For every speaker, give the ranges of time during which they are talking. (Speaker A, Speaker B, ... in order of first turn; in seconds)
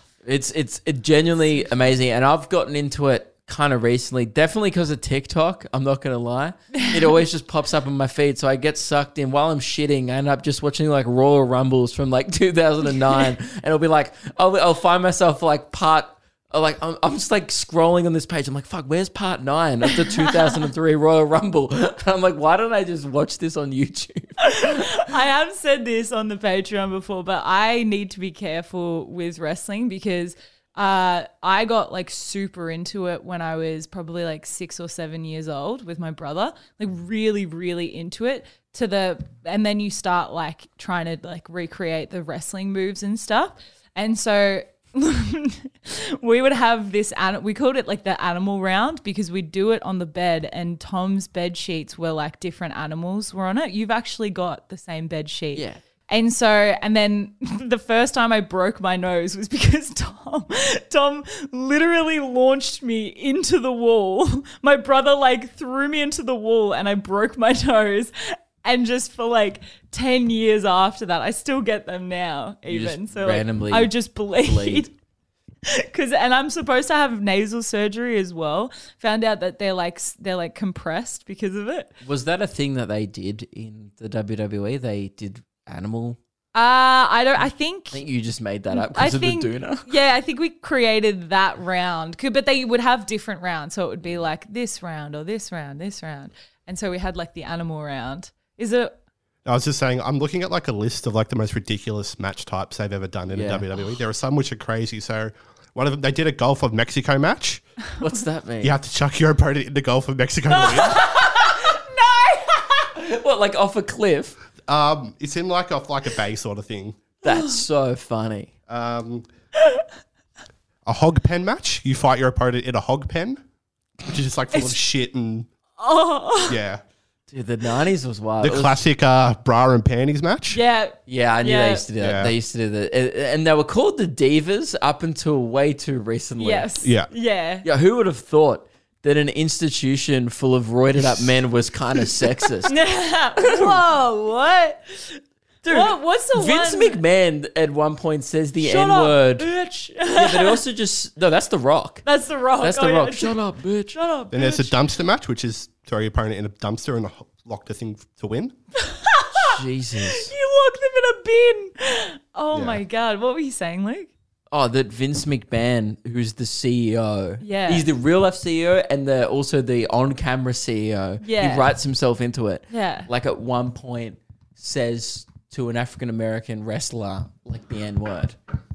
Speaker A: 0.2-25.1, 55.5-55.8, 72.7-74.9, 82.0-86.2, 87.9-89.9, 103.3-103.7, 108.0-108.8, 112.9-114.4, 117.2-118.5, 127.3-128.8, 131.1-136.7, 137.6-142.8, 143.4-143.8, 145.6-149.5, 150.1-152.1, 152.6-154.0, 159.3-160.3, 164.5-178.4
Speaker B: 6.7-7.0, 20.1-20.3, 24.4-74.9, 75.7-81.9, 86.5-88.0, 88.7-98.9, 110.5-112.9, 117.3-117.5, 125.8-126.6, 130.5-131.8, 136.4-137.7, 142.7-147.0, 148.6-150.6, 152.1-153.4, 153.9-154.8, 158.8-164.1, 167.4-167.9, 171.2-171.7, 172.7-173.1
Speaker C: 99.5-107.6, 108.6-111.1, 114.7-117.1, 118.7-119.3, 120.8-123.4, 124.0-125.5, 126.5-126.8, 128.4-130.6, 132.0-132.3, 136.8-137.1, 154.3-158.6, 162.5-162.8